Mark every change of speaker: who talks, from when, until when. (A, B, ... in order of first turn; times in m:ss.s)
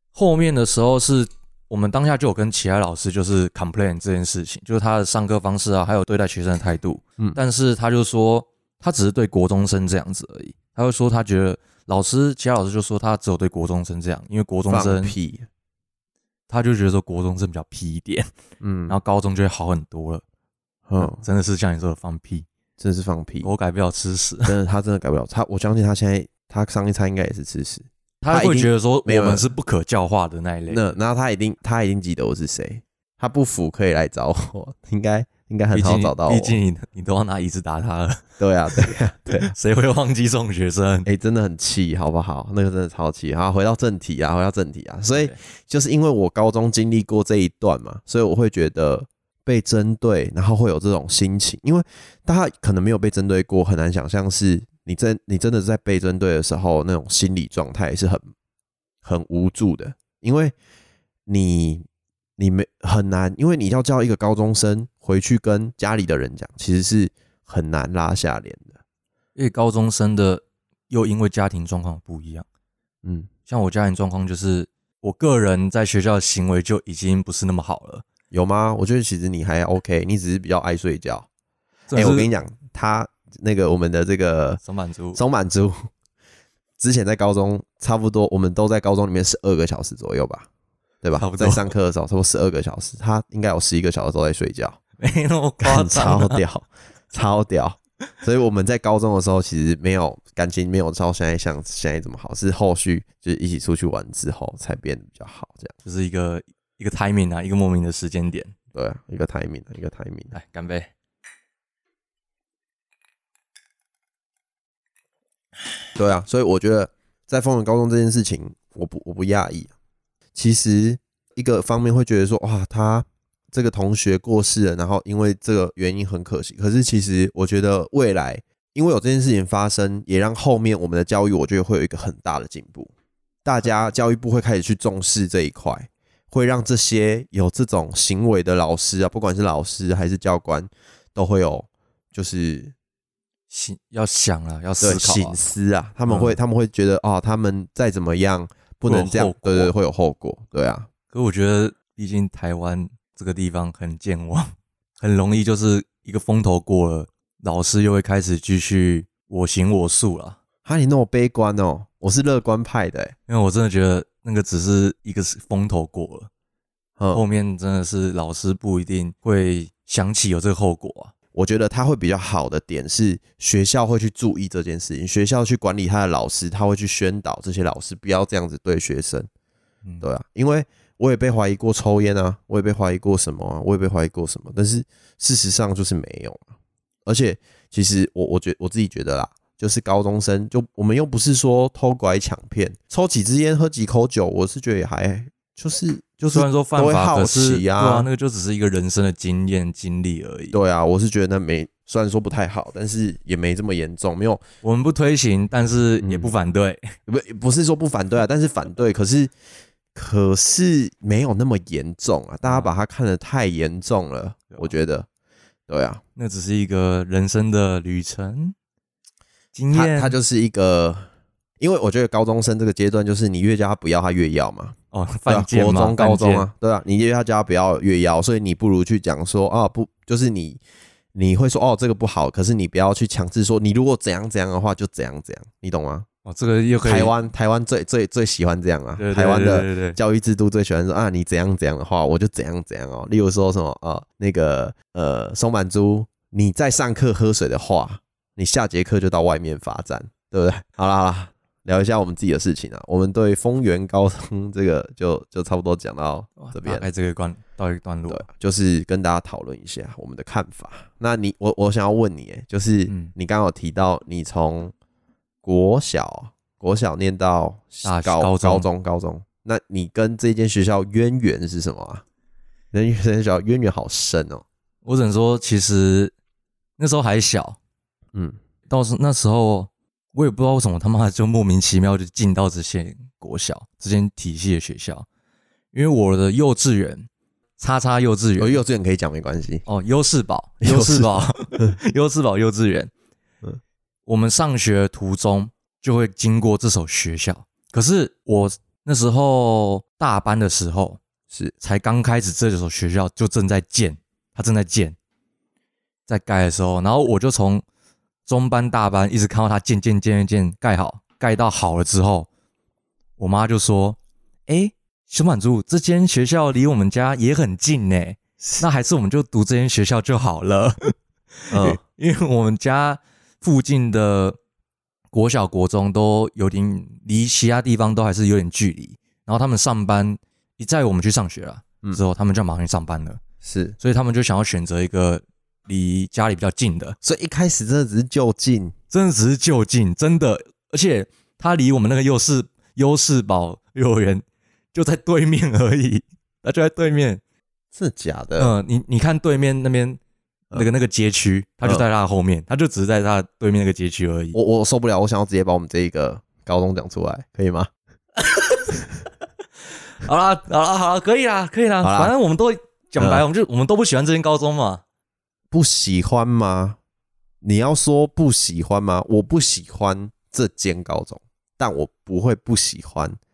0:00.1-0:15.2 A
0:14.7-0:15.5 B
0:16.5-0:18.3 A
0:18.6-0:19.0 B
0:18.9-0:20.2 A
0:20.9-0:21.2 B
0:21.0-0:22.5 A
0:22.8-0:23.5 B
0:23.4-0:24.6 A
0:24.4-0:29.5 B
0:28.2-0:30.8 A
0:30.7-0:36.6 B
0:35.7-0:41.1 A
0:38.4-0:39.5 B
0:41.0-0:58.3 B
0:59.0-1:00.5 B
1:01.3-1:01.9 B
1:02.4-1:08.8 B
1:09.4-1:12.4 A
1:13.0-1:13.3 B
1:13.5-1:18.0 A
1:18.3-1:21.3 B
1:21.9-1:22.3 A
1:22.0-1:24.6 B
1:24.6-1:25.2 A
1:25.1-1:25.9 B
1:26.8-1:30.5 B
1:31.0-1:34.8 B
1:31.2-1:31.7 A
1:35.0-1:36.4 A
1:35.6-1:45.8 B
1:45.8-1:48.5 A
1:48.7-1:50.3 B
1:50.3-1:50.9 A
1:56.0-1:59.7 B
2:00.4-2:12.9 B
2:13.4-2:22.7 B
2:23.5-2:25.4 A
2:24.8-2:30.9 B
2:26.1-2:26.4 A
2:28.9-2:29.7 A
2:31.1-2:40.4 A
2:40.6-2:43.2 B
2:43.3-2:46.3 A
2:47.0-2:47.2 B
2:47.1-2:51.1 A
2:51.3-2:59.3 B
3:00.0-3:06.5 B
3:07.1-3:18.1 B
3:16.3-3:20.6 A
3:20.5-3:24.4 B
3:24.6-3:26.9 A
3:26.0-3:26.3 B
3:27.1-3:29.3 B
3:29.9-3:35.1 B
3:32.5-3:32.7 A
3:35.7-3:36.0 B
3:36.2-3:38.6 A
3:39.6-3:40.2 A
3:39.7-3:41.1 B
3:41.6-3:44.8 B
3:44.9-3:46.5 A
3:45.3-3:50.6 B
3:51.1-3:56.1 B
3:56.2-3:57.1 A
3:56.8-4:16.9 B
3:59.0-4:00.0 A
4:16.4-4:18.2 A
4:18.1-4:24.7 B
4:25.4-4:32.0 B
4:27.8-4:28.7 A
4:32.7-4:34.4 B
4:34.8-4:36.1 A
4:36.8-4:37.6 A
4:38.7-4:45.1 A
4:45.7-4:48.6 A
4:48.4-4:49.6 B
4:49.7-4:52.9 A
4:50.6-4:51.8 B
4:54.1-5:01.0 A
5:01.6-5:05.0 A
5:06.1-5:07.6 A
5:08.3-5:12.3 A
5:13.2-5:20.9 A
5:21.5-5:24.4 A
5:21.5-5:21.8 B
5:25.1-5:33.2 A
5:33.4-5:33.8 B
5:33.8-5:37.0 A
5:37.0-5:38.8 B
5:38.9-5:47.2 A
5:47.7-5:48.5 B
5:48.4-5:50.0 A
5:50.5-5:54.4 A
5:54.3-5:57.7 B
5:58.2-5:58.8 A
6:00.0-6:04.8 A
6:01.8-6:02.1 B
6:03.0-6:03.2 B
6:05.5-6:06.8 B
6:07.4-6:13.2 B